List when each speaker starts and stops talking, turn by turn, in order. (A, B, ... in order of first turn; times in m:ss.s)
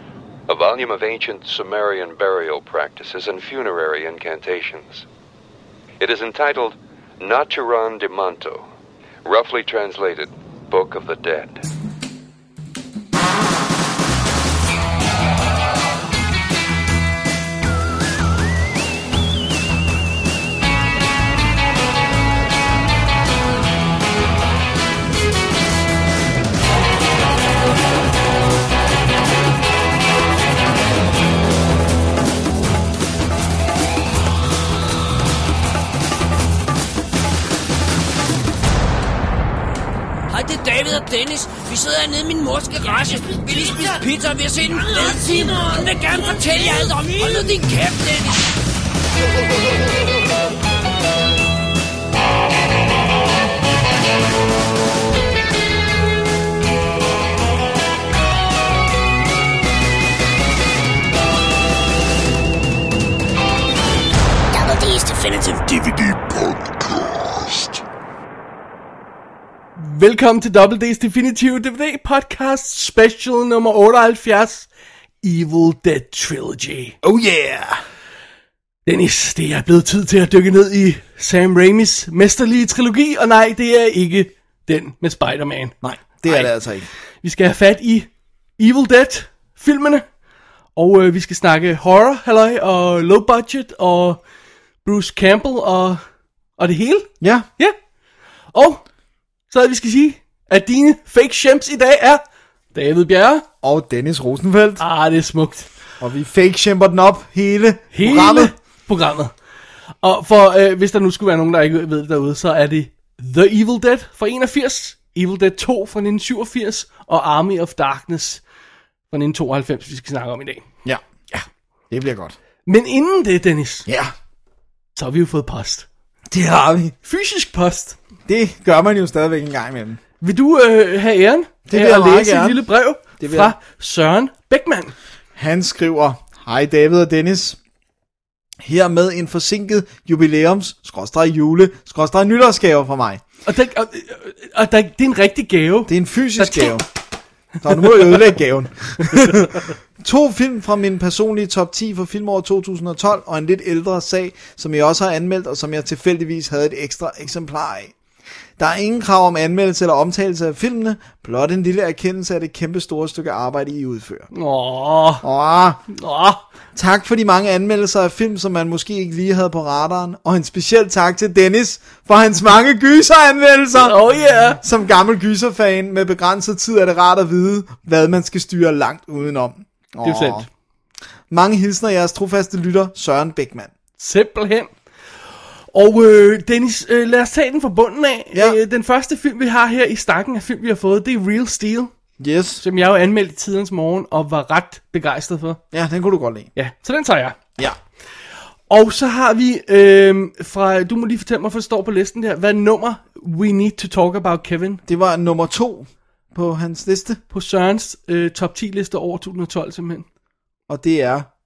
0:00.5-0:05.0 A
0:06.0-0:08.6 A
0:09.2-0:11.6 A
0:40.3-0:48.5 B
1:04.5-1:07.8 C
1:09.8-1:14.7 D
1:15.2-1:16.9 D
1:17.0-1:17.8 E
1:18.8-1:25.7 D
1:25.8-1:26.9 E
1:26.2-1:26.5 D
1:27.2-1:30.0 D
1:30.8-1:34.2 D
1:34.8-1:36.0 D
1:36.6-1:37.7 D
1:37.2-1:37.5 E
1:38.5-1:38.8 D
1:39.5-1:42.2 D
1:42.7-1:43.4 D
1:43.6-1:44.8 E
1:44.8-1:45.7 D
1:46.0-1:48.5 E
1:47.9-1:49.3 D
1:50.0-1:58.4 D
1:59.1-2:00.6 D
2:01.9-2:02.4 E
2:02.6-2:03.9 D
2:03.8-2:04.1 E
2:05.0-2:05.8 D
2:06.3-2:06.9 E
2:07.0-2:08.0 D
2:08.3-2:10.0 E
2:10.2-2:14.9 D
2:11.7-2:12.6 E
2:13.2-2:13.5 E
2:15.4-2:17.6 E
2:18.6-2:23.2 E
2:23.4-2:26.8 D
2:25.9-2:26.8 E
2:27.6-2:37.9 E
2:38.6-2:44.3 E
2:44.3-2:45.2 D
2:45.2-2:45.8 E
2:45.9-2:46.4 D
2:46.7-2:54.0 E
2:53.8-2:54.6 D
2:54.6-3:00.5 E
3:00.0-3:00.4 D
3:01.3-3:03.7 E
3:04.0-3:04.7 D
3:05.7-3:11.9 D
3:08.3-3:08.6 E
3:12.2-3:12.6 E
3:12.6-3:15.6 D
3:15.7-3:16.5 E
3:16.6-3:17.4 D
3:18.7-3:24.8 D
3:24.8-3:27.2 E
3:27.3-3:30.0 D
3:30.7-3:31.3 E